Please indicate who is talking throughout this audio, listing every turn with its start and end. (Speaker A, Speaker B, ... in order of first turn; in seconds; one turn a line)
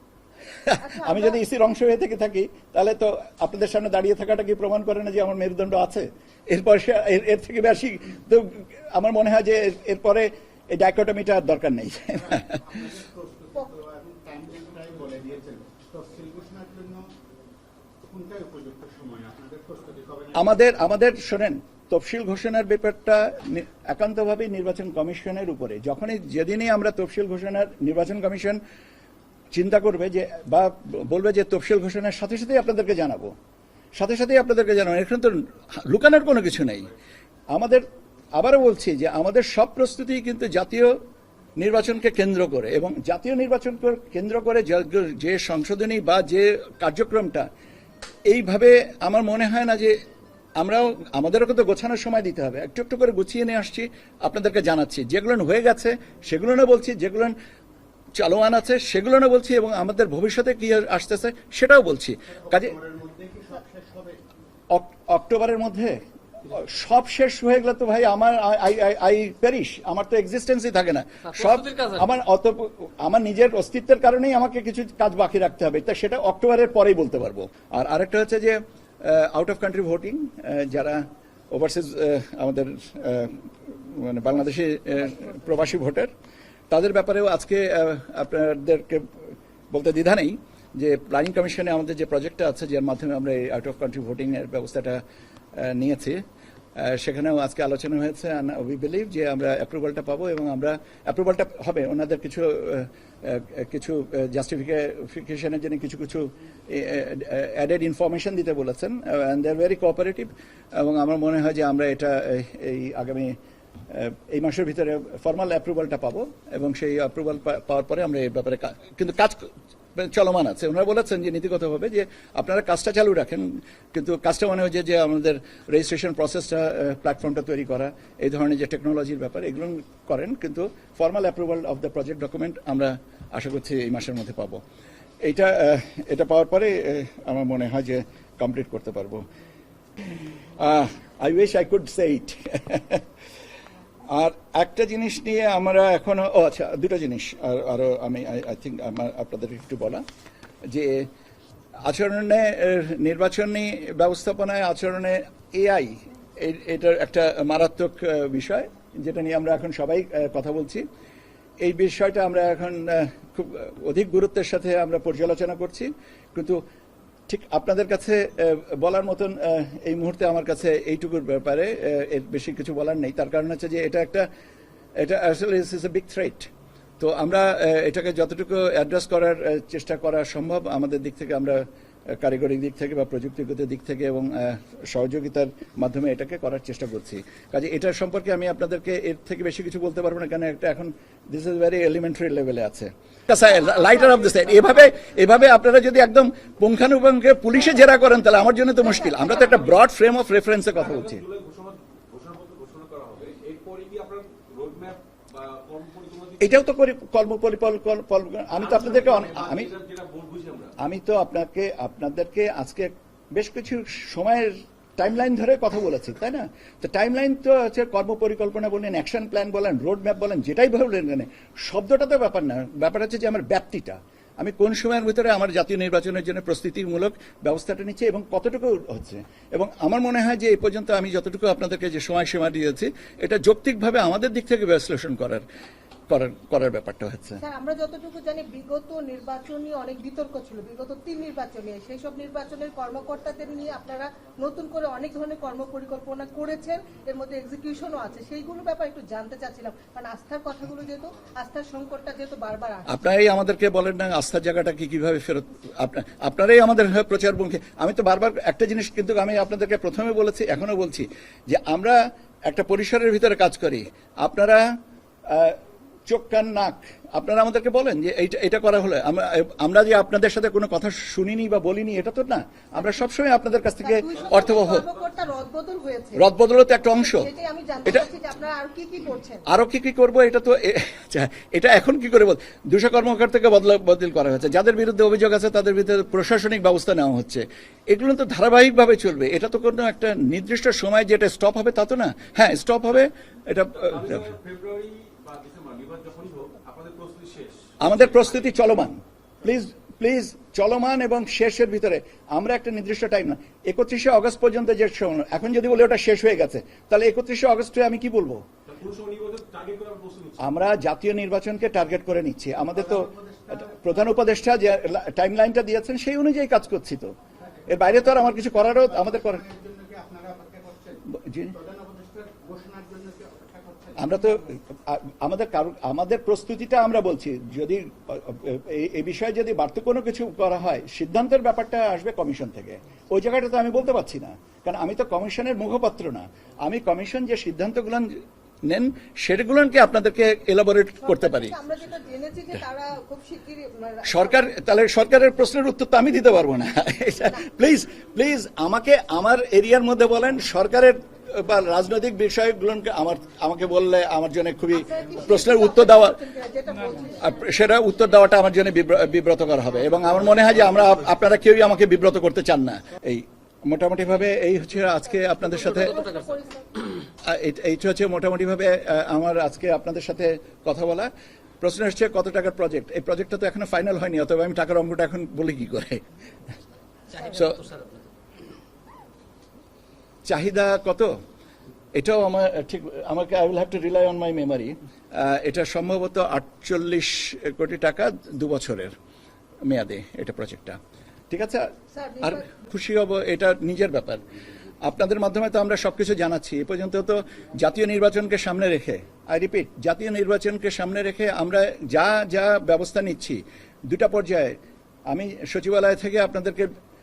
Speaker A: 0.5-12.6
Speaker B: 0.7-1.4
Speaker C: 12.1-17.1
Speaker C: 18.0-20.6
Speaker A: 20.3-28.6
Speaker A: 29.5-33.3
Speaker A: 34.0-36.9
Speaker A: 37.5-37.8
Speaker A: 38.4-41.0
Speaker A: 41.6-47.5
Speaker A: 48.3-50.0
Speaker A: 50.6-57.3
Speaker A: 58.2-62.7
Speaker C: 62.4-64.2
Speaker A: 64.7-86.1
Speaker D: 71.3-72.0
Speaker A: 86.7-95.0
Speaker A: 95.5-96.2
Speaker A: 96.8-113.3
Speaker A: 113.9-134.6
Speaker A: 135.2-139.2
Speaker A: 140.4-143.0
Speaker A: 144.1-150.0
Speaker A: 150.7-151.1
Speaker A: 151.8-160.8
Speaker A: 161.6-166.6
Speaker A: 167.3-174.3
Speaker A: 175.0-201.2
Speaker B: 198.8-199.7
Speaker D: 200.7-206.7
Speaker A: 206.4-209.7
Speaker D: 208.5-210.8
Speaker A: 210.8-235.4
Speaker A: 236.1-237.4
Speaker B: 237.4-252.9
Speaker A: 252.9-264.6
Speaker A: 265.2-274.8
Speaker B: 273.8-276.3
Speaker D: 274.1-275.0
Speaker A: 276.1-277.3
Speaker B: 276.8-279.5
Speaker A: 279.5-294.3
Speaker D: 293.7-298.3
Speaker A: 297.8-308.4
Speaker D: 308.6-310.4
Speaker A: 310.4-317.1
Speaker C: 312.7-314.0
Speaker A: 317.7-319.4
Speaker C: 317.7-324.1
Speaker A: 321.1-321.5
Speaker A: 324.0-341.6
Speaker B: 341.0-344.5
Speaker A: 344.0-356.2
Speaker B: 354.7-357.4
Speaker A: 357.1-366.0
Speaker B: 365.1-367.0
Speaker A: 367.2-376.0
Speaker D: 377.1-378.1
Speaker A: 377.2-377.6
Speaker A: 380.3-381.1
Speaker A: 381.9-388.9
Speaker A: 389.6-390.8
Speaker A: 391.3-391.7
Speaker B: 391.9-392.5
Speaker A: 392.2-394.2
Speaker A: 394.8-404.6
Speaker A: 405.1-406.8